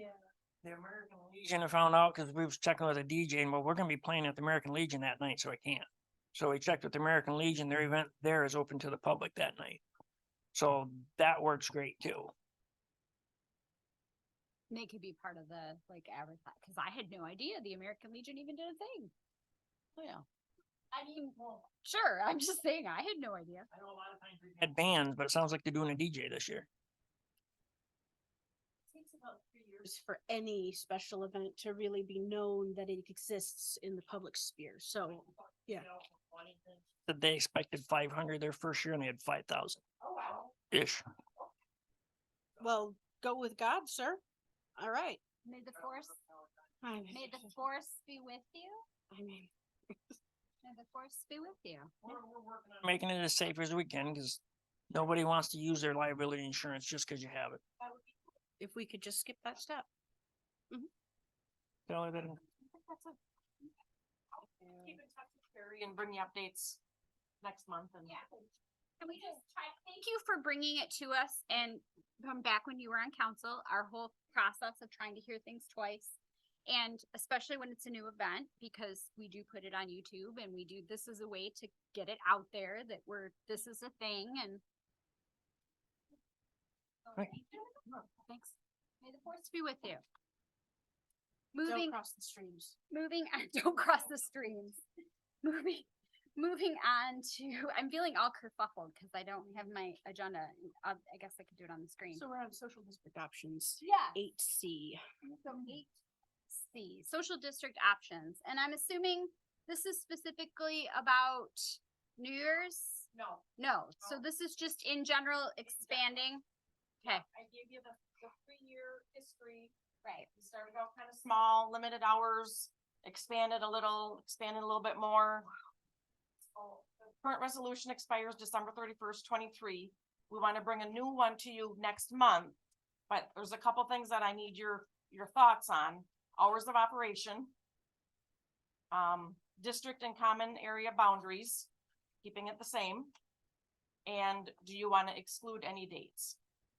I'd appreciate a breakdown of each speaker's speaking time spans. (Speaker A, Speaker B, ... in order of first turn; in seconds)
Speaker A: 0.6-9.8, 10.5-12.3, 23.7-26.7, 37.1-39.8, 40.7-41.0, 52.1-57.6, 61.9-62.4
Speaker B: 14.7-19.1, 20.9-23.7, 45.4-46.1, 47.1-48.8, 50.6-52.2, 69.0-76.1, 76.7-84.6, 87.1-87.7, 88.2-90.0, 91.5-92.0, 92.9-94.8, 95.4-102.2, 103.8-104.2, 105.4-105.9, 106.5-116.4
Speaker C: 29.8-35.9, 42.6-44.2, 44.8-45.2, 46.8-47.3, 49.1-49.5, 58.6-59.9, 91.6-92.8, 102.1-105.0
Speaker D: 40.0-40.5, 62.7-63.1, 64.4-66.8, 67.4-68.2, 113.1-113.4, 117.1-119.7, 120.3-125.5, 126.5-132.6, 133.1-137.5, 138.9-141.7, 142.2-143.1, 144.1-146.4